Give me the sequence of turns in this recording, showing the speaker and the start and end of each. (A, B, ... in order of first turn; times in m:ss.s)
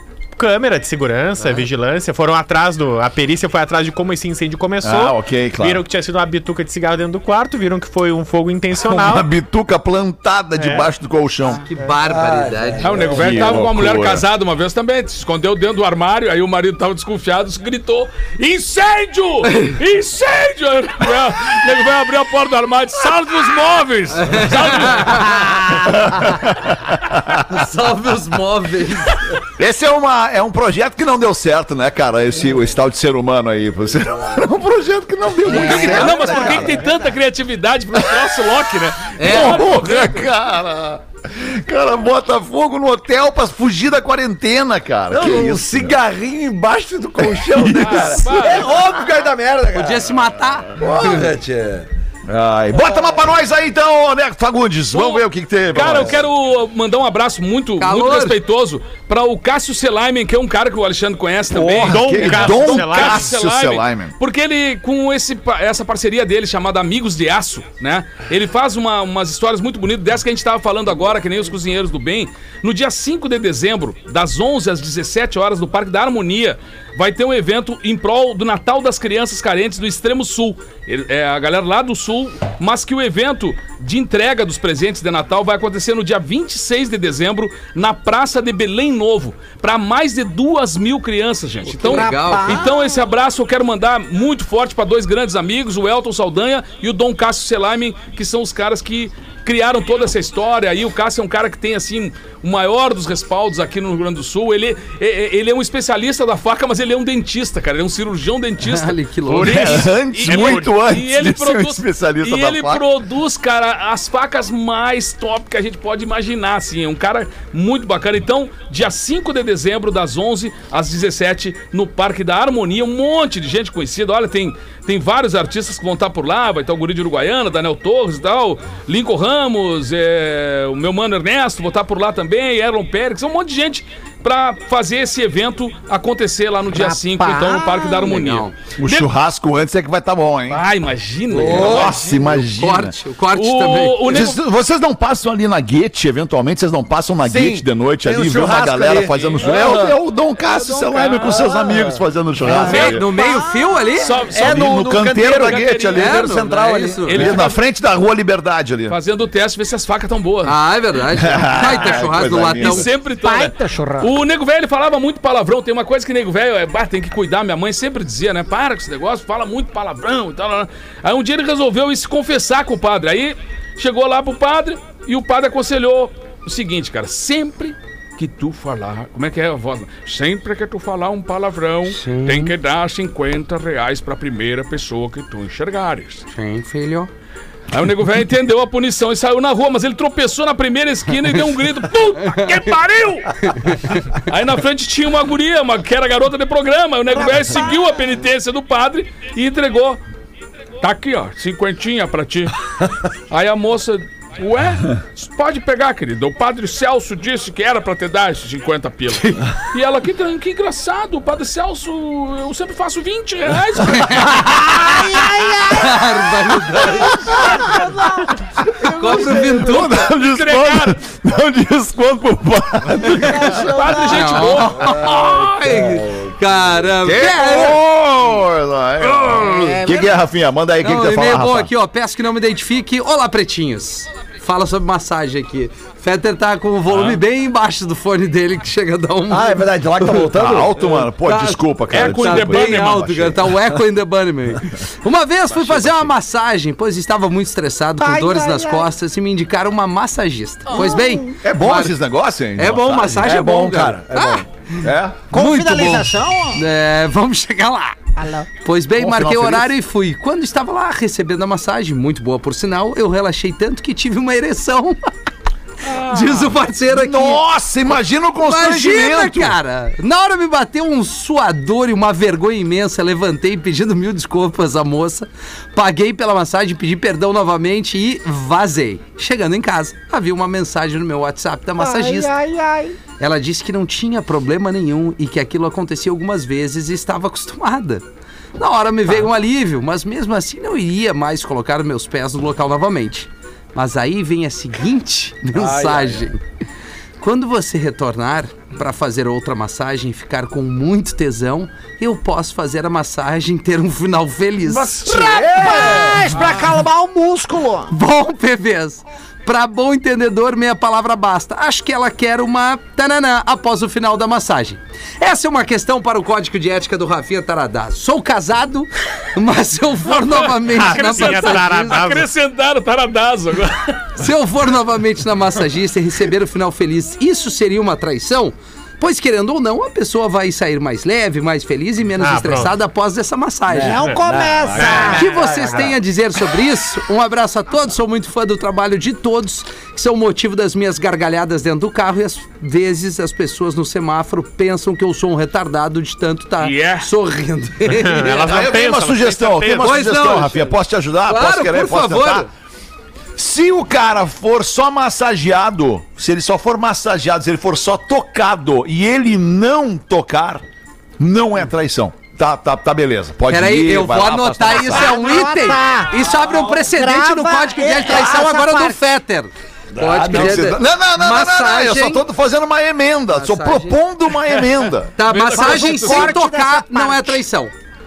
0:00.4-0:09.3 A
0:04.8-0:05.8 B
0:08.8-0:11.6 B
0:10.6-0:10.9 A
0:11.6-0:13.2 C
0:12.0-0:13.5 D
0:12.8-0:25.5 E
0:13.1-0:14.3 B
0:24.2-0:25.7 C
0:25.9-0:27.4 B
0:27.5-0:29.3 C
0:29.6-0:36.7 B
0:35.5-0:36.9 F
0:35.5-0:40.3 E
0:39.2-0:39.7 C
0:39.2-0:46.0 B
0:45.1-0:50.2 D
0:47.2-0:48.2 B
0:47.8-0:48.8 E
0:49.7-0:51.3 C
0:50.8-0:51.9 D
0:52.3-0:56.3 B
0:54.9-2:19.1 E
0:55.8-0:56.1 D
0:57.8-0:58.4 C
1:01.5-1:04.1 B
1:01.8-1:03.3 A
1:31.7-1:32.7 C
1:31.8-1:33.0 F
1:48.6-1:49.9 C
1:49.4-1:52.8 B
1:50.3-1:50.7 A
2:16.7-2:18.2 F
2:18.1-2:18.6 C
2:18.8-2:20.6 B
2:20.5-2:22.4 E
2:21.3-2:22.0 D
2:21.4-2:23.0 B
2:22.5-2:24.2 C
2:23.3-2:24.4 E
2:24.1-2:33.1 B
2:27.2-2:30.0 D
2:29.2-2:29.8 E
2:30.5-2:31.4 E
2:31.2-2:32.0 D
2:32.5-2:34.2 C
2:32.5-2:33.1 E
2:32.6-2:34.0 F
2:34.0-2:36.3 E
2:34.2-2:37.1 D
2:34.4-2:36.2 B
2:35.9-2:37.4 C
2:37.0-2:37.6 E
2:37.1-2:39.0 B
2:38.9-2:40.6 E
2:40.4-2:42.9 C
2:41.1-2:42.9 B
2:41.6-3:06.3 E
2:43.2-2:44.2 F
3:01.9-3:02.5 C
3:06.3-3:07.1 C
3:07.7-3:20.0 E
3:13.5-3:14.0 C
3:17.2-3:17.9 F
3:20.8-3:22.6 E
3:23.3-3:34.6 E
3:33.9-3:34.8 C
3:34.8-3:36.2 F
3:35.7-3:37.4 C
3:37.2-3:37.6 B
3:37.3-3:39.4 F
3:38.8-3:40.0 C
3:39.1-3:43.7 B
3:40.0-3:41.0 E
3:43.2-3:44.5 F
3:43.4-3:45.8 E
3:44.0-3:47.8 C
3:45.2-3:46.3 D
3:47.0-3:51.7 B
3:49.3-3:50.2 F
3:50.8-4:00.3 C
3:56.9-3:57.2 E
3:59.3-4:00.9 D
4:00.3-4:03.5 B
4:00.9-4:11.9 C
4:01.9-4:03.2 E
4:08.0-4:08.9 F
4:10.7-4:11.4 F
4:11.4-4:13.3 B
4:12.6-4:14.4 C
4:13.1-4:14.4 D
4:14.8-4:15.3 B
4:15.3-4:18.0 C
4:15.3-4:16.6 F
4:18.2-4:18.5 F
4:18.6-4:25.1 C
4:19.0-4:19.7 B
4:25.9-4:26.5 F
4:26.0-4:27.4 C
4:26.9-4:29.6 B
4:28.4-4:42.3 C
4:41.8-4:43.0 F
4:43.2-4:48.0 C
4:48.6-4:56.4 C
4:55.5-4:56.3 D
4:57.2-5:05.0 C
5:04.6-5:06.4 D
5:05.0-5:08.0 F
5:06.3-5:06.7 E
5:07.9-5:22.1 C
5:20.1-5:24.1 E
5:20.7-5:22.3 A
5:24.2-5:34.1 C
5:32.2-5:32.8 A
5:33.7-5:35.6 D
5:33.7-5:35.3 F
5:33.9-5:36.0 A
5:35.0-5:48.5 C
5:46.6-5:47.1 E
5:47.9-5:50.0 A
5:48.4-5:52.5 B
5:49.8-5:52.5 C
5:53.4-6:00.6 B
6:01.2-6:05.2 B
6:03.5-6:12.2 C
6:04.9-6:06.3 F
6:06.8-6:09.0 F
6:10.0-6:10.6 D
6:10.0-6:15.1 B
6:13.3-6:14.0 C
6:15.2-6:17.7 C
6:15.2-6:16.4 E
6:15.5-6:17.4 F